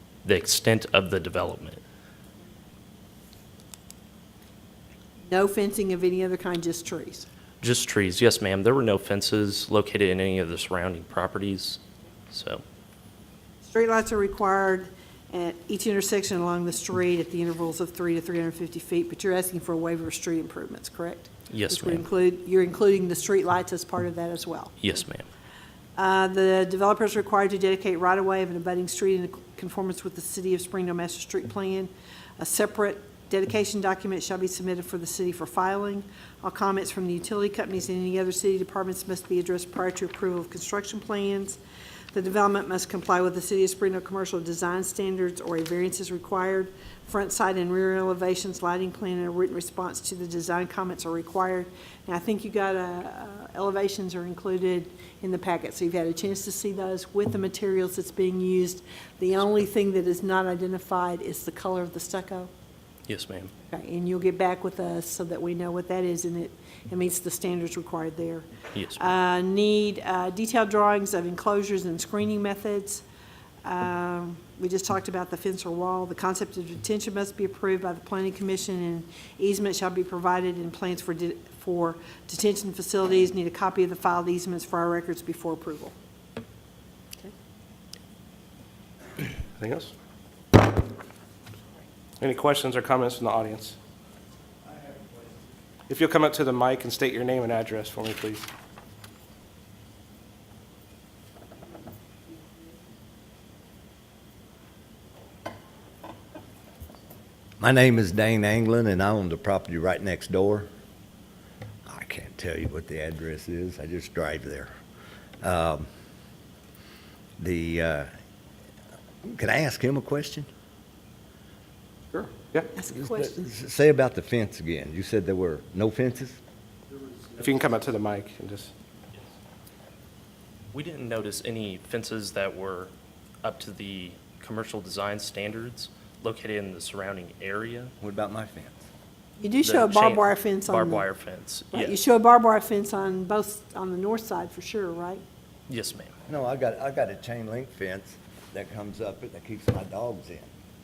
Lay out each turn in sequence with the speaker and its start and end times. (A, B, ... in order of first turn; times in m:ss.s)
0:00.2-0:01.8 A
0:05.3-0:07.3 B
0:07.6-0:12.6 A
0:13.6-0:24.8 B
0:21.5-0:22.0 A
0:24.8-0:25.3 A
0:26.0-0:41.6 B
0:42.1-1:02.5 B
1:03.1-1:03.5 A
1:03.7-1:13.0 B
1:08.7-1:09.1 A
1:13.6-1:25.9 B
1:29.5-1:29.9 C
1:32.2-1:33.8 C
1:35.9-1:38.5 C
1:47.6-1:50.7 D
1:51.9-1:54.7 D
1:55.4-1:55.9 D
1:57.4-1:58.1 D
1:59.2-2:00.5 D
2:02.2-2:02.7 C
2:02.7-2:03.4 B
2:02.9-2:06.4 D
2:07.4-2:08.7 C
2:10.7-2:12.9 A
2:13.4-2:17.9 A
2:18.0-2:18.8 D
2:19.4-2:21.1 B
2:19.6-2:22.0 A
2:21.7-2:25.2 B
2:25.7-2:26.1 A
2:26.3-2:30.5 D